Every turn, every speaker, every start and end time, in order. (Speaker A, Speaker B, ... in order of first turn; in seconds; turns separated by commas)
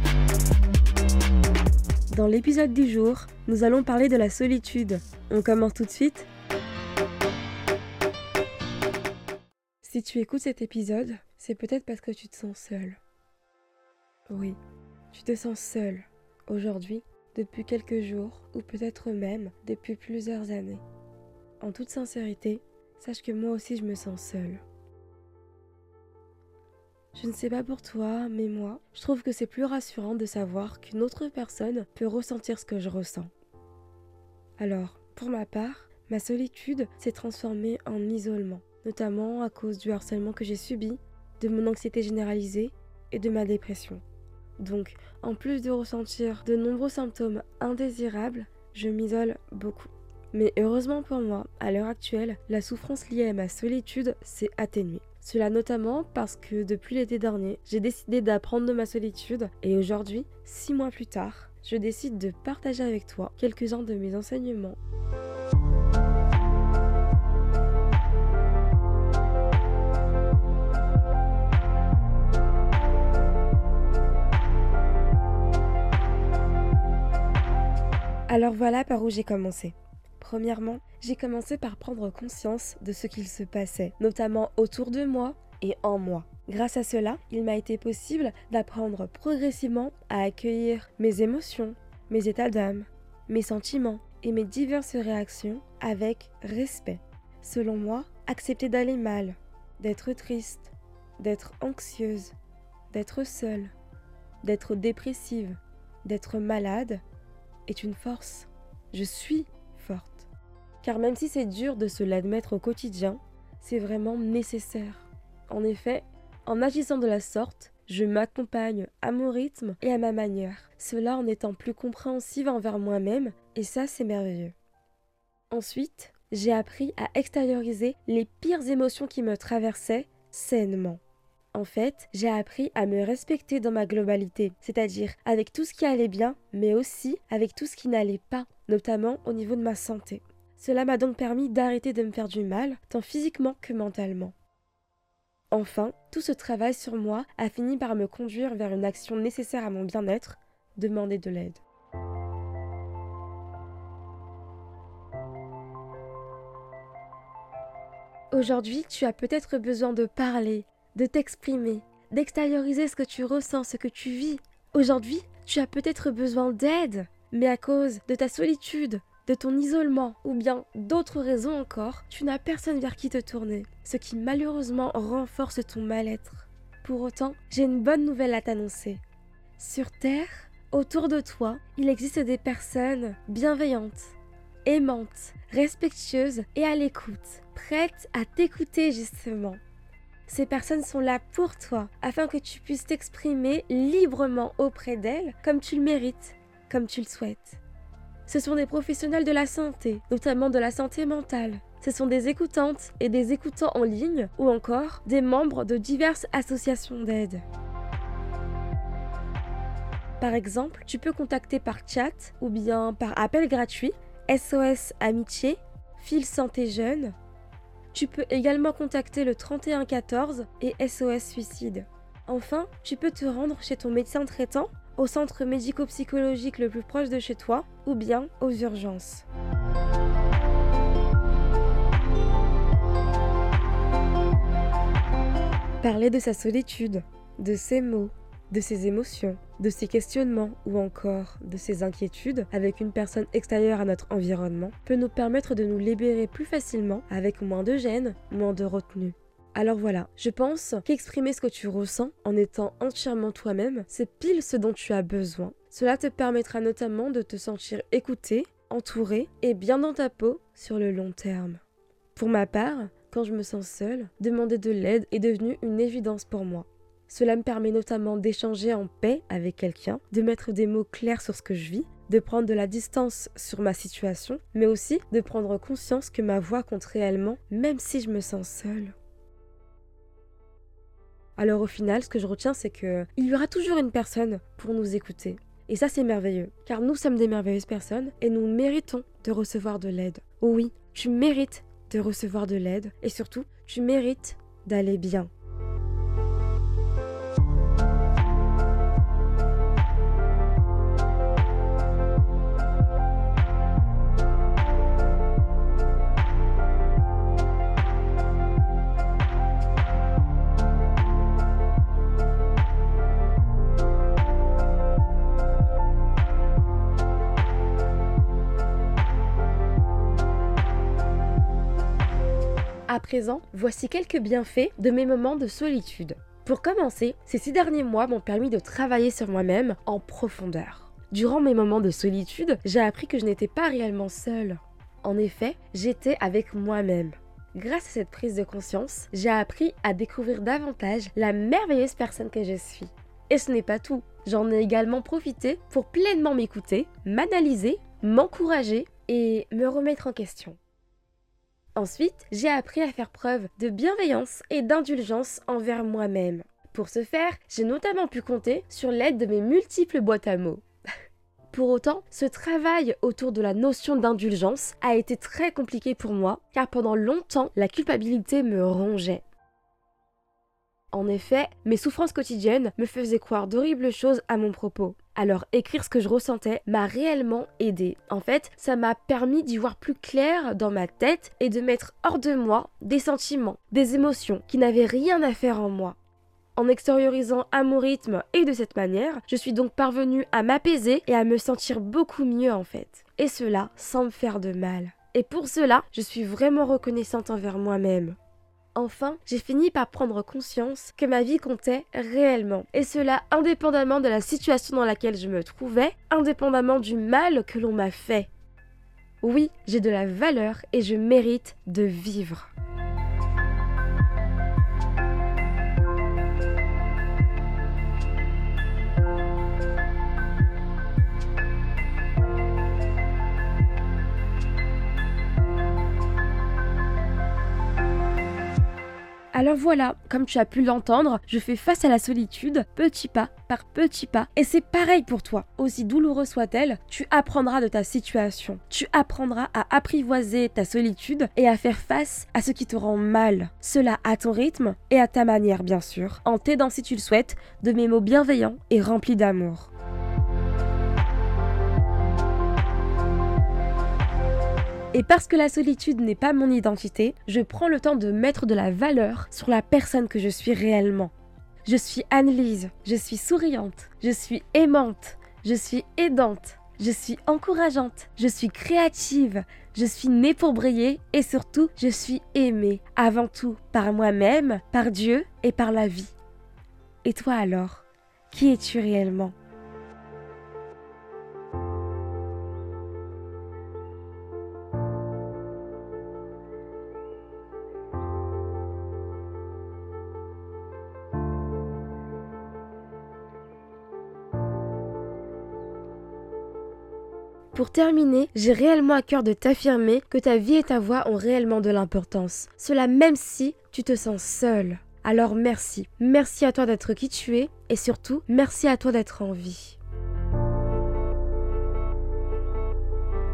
Speaker A: 2.1-6.3, Speaker A: 9.8-13.0, Speaker A: 14.3-14.6, Speaker A: 15.1-20.8, Speaker A: 21.6-24.6, Speaker A: 27.1-33.3, Speaker A: 34.6-44.0, Speaker A: 44.6-64.8, Speaker A: 78.3-102.3, Speaker A: 102.9-103.7, Speaker A: 104.4-107.0, Speaker A: 107.7-110.3, Speaker A: 110.8-124.5, Speaker A: 125.5-131.0, Speaker A: 131.5-144.3, Speaker A: 145.5-151.6, Speaker A: 158.3-179.0, Speaker A: 179.6-189.6, Speaker A: 190.3-197.6, Speaker A: 198.3-207.4, Speaker A: 210.2-217.1, Speaker A: 217.9-229.2, Speaker A: 235.8-261.6, Speaker A: 262.1-278.9, Speaker A: 281.4-295.3, Speaker A: 322.9-350.6, Speaker A: 351.8-360.6, Speaker A: 361.5-369.2, Speaker A: 370.9-386.0, Speaker A: 386.6-398.2, Speaker A: 398.7-408.3, Speaker A: 409.2-412.5, Speaker A: 429.3-449.7, Speaker A: 454.9-461.1, Speaker A: 461.6-476.1, Speaker A: 477.0-479.3, Speaker A: 497.5-509.8